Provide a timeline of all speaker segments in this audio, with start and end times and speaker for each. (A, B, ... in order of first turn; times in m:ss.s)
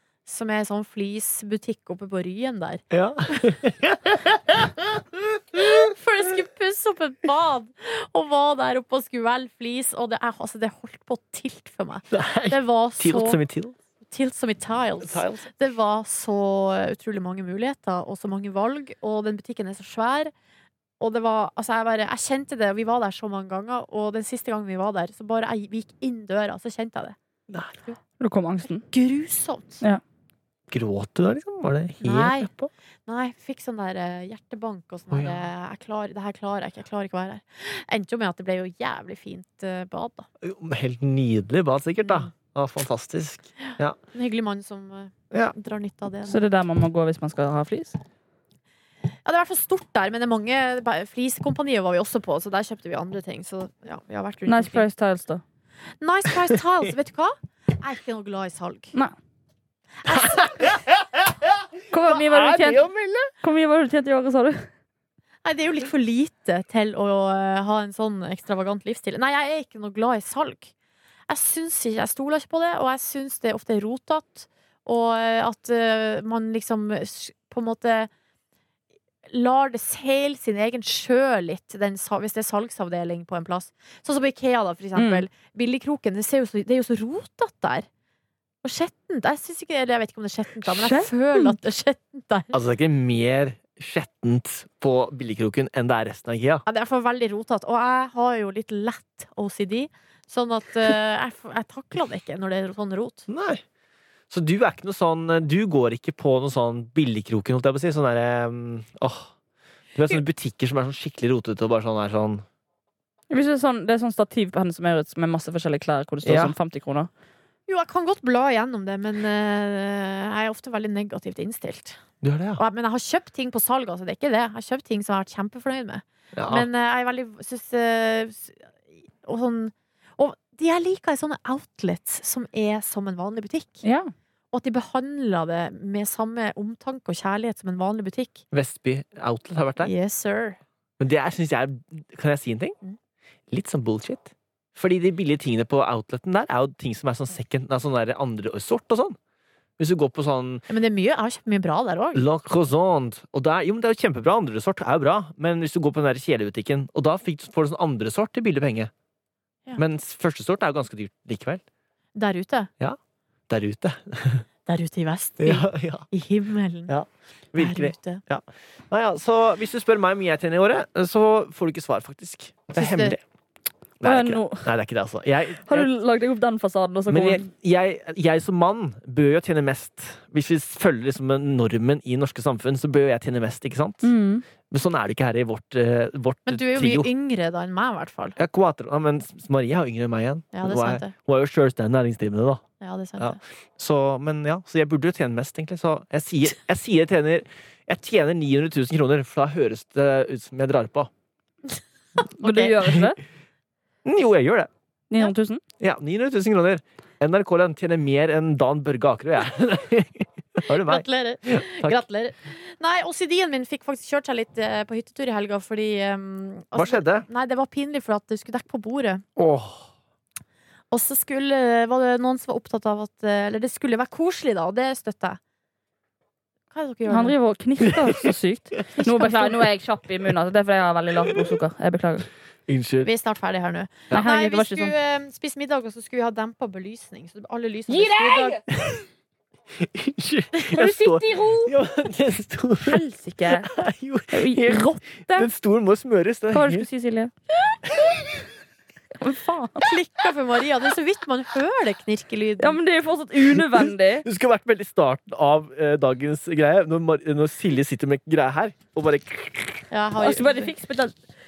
0:00.2-0:02.8 A
0:02.9-0:05.6 B
0:05.6-0:13.4 A
0:12.1-0:13.7 B
0:14.1-0:20.3 A
0:15.0-0:15.5 B
0:21.0-0:27.2 A
0:27.5-0:27.7 B
0:28.2-0:28.8 C
0:28.9-0:29.8 A
0:30.7-0:32.7 B
0:32.0-0:32.5 A
0:33.1-0:40.3 A
0:35.1-0:35.4 B
0:40.4-0:44.0 B
0:42.0-0:42.3 A
0:44.1-0:46.5 A
0:46.2-0:48.0 C
0:49.2-0:54.8 A
0:54.5-0:55.4 C
0:56.0-0:58.9 A
1:00.0-1:00.8 A
1:00.1-1:03.3 B
1:01.9-1:02.8 C
1:03.4-1:04.7 C
1:05.4-1:10.7 A
1:11.3-1:18.1 A
1:19.2-1:27.9 A
1:25.0-1:25.2 C
1:28.6-1:32.6 A
1:30.7-1:31.6 C
1:32.5-1:36.6 B
1:36.6-1:43.3 A
1:43.3-1:43.6 B
1:44.3-1:49.3 B
1:49.9-1:52.4 B
1:53.3-1:57.1 C
1:56.2-1:56.5 B
1:57.7-2:02.0 A
2:02.2-2:02.6 B
2:02.6-2:13.8 A
2:06.3-2:06.7 B
2:13.8-2:14.1 C
2:14.5-2:18.4 A
2:18.5-2:19.9 B
2:19.8-2:20.6 A
2:21.0-2:22.8 B
2:23.5-2:29.2 B
2:29.8-2:30.6 B
2:30.7-2:32.2 A
2:32.1-2:38.9 B
2:39.8-2:41.6 B
2:42.2-2:42.7 A
2:43.5-2:44.4 B
2:44.7-2:46.9 A
2:45.4-2:46.0 B
2:46.9-2:53.2 B
2:47.6-2:48.2 A
2:52.7-2:53.2 A
2:54.0-2:55.9 B
2:54.0-2:54.7 C
2:55.6-2:57.5 C
2:57.1-3:04.1 B
3:04.0-3:04.4 C
3:04.7-3:07.1 B
3:06.4-3:08.4 A
3:08.4-3:12.6 B
3:10.5-3:11.1 A
3:12.8-3:13.4 A
3:13.2-3:21.1 B
3:22.4-3:23.2 C
3:22.4-3:22.8 A
3:22.8-3:23.1 B
3:24.0-3:24.7 B
3:25.1-3:25.6 C
3:25.8-3:32.0 B
3:30.7-3:39.2 A
3:36.7-3:37.3 B
3:39.4-3:39.9 B
3:40.9-3:45.4 A
3:46.7-3:47.4 A
3:47.1-3:52.3 C
3:47.8-3:48.3 B
3:49.0-3:49.6 A
3:51.3-3:51.5 B
3:52.7-3:53.1 B
3:53.0-3:58.6 A
3:54.1-3:54.9 C
3:57.9-3:58.4 C
3:58.7-3:59.0 B
3:59.7-4:06.9 B
4:00.7-4:01.5 A
4:02.8-4:03.7 C
4:04.3-4:05.5 C
4:06.5-4:07.3 C
4:09.2-4:09.9 C
4:09.8-4:12.8 A
4:12.6-4:14.2 C
4:13.4-4:19.9 B
4:19.9-4:20.7 A
4:20.2-4:21.1 C